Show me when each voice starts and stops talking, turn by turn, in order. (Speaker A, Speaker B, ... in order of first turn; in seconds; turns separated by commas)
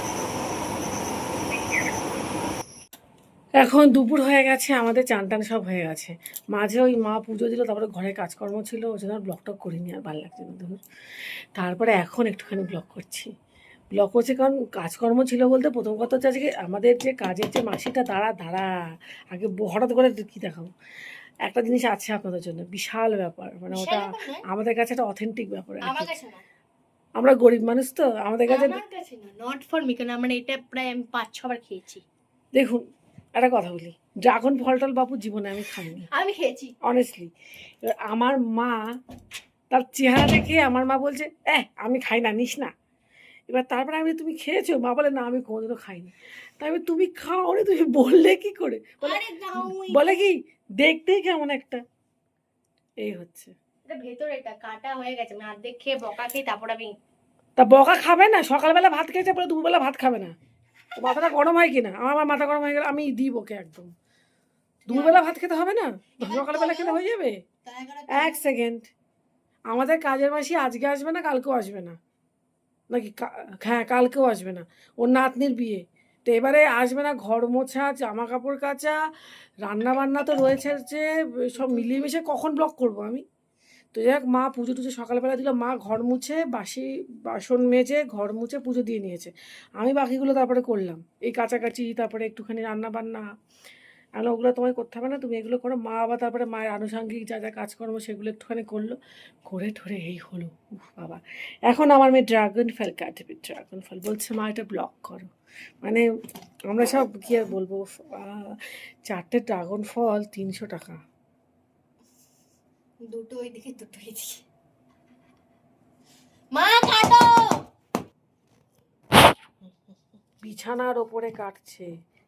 Speaker A: 3.5-10.8, Speaker A: 11.6-13.3, Speaker A: 13.9-18.7, Speaker A: 19.3-20.7, Speaker A: 21.5-26.1, Speaker B: 23.7-24.4, Speaker B: 25.8-26.4, Speaker A: 27.2-28.8, Speaker B: 28.5-32.0, Speaker A: 32.5-32.8, Speaker A: 33.4-36.1, Speaker B: 36.1-36.7, Speaker A: 36.8-39.0, Speaker A: 39.7-42.7, Speaker A: 43.5-51.8, Speaker B: 49.0-50.2, Speaker A: 53.0-53.5, Speaker B: 53.9-56.9, Speaker A: 57.6-60.4, Speaker A: 61.0-63.9, Speaker B: 64.9-65.2, Speaker A: 64.9-67.4, Speaker B: 66.2-67.0, Speaker B: 67.7-68.5, Speaker A: 68.1-68.9, Speaker A: 69.7-72.0, Speaker A: 72.9-83.2, Speaker A: 83.9-93.3, Speaker A: 94.2-105.3, Speaker A: 106.7-111.0, Speaker B: 113.0-114.5, Speaker B: 116.5-117.6, Speaker A: 120.4-121.9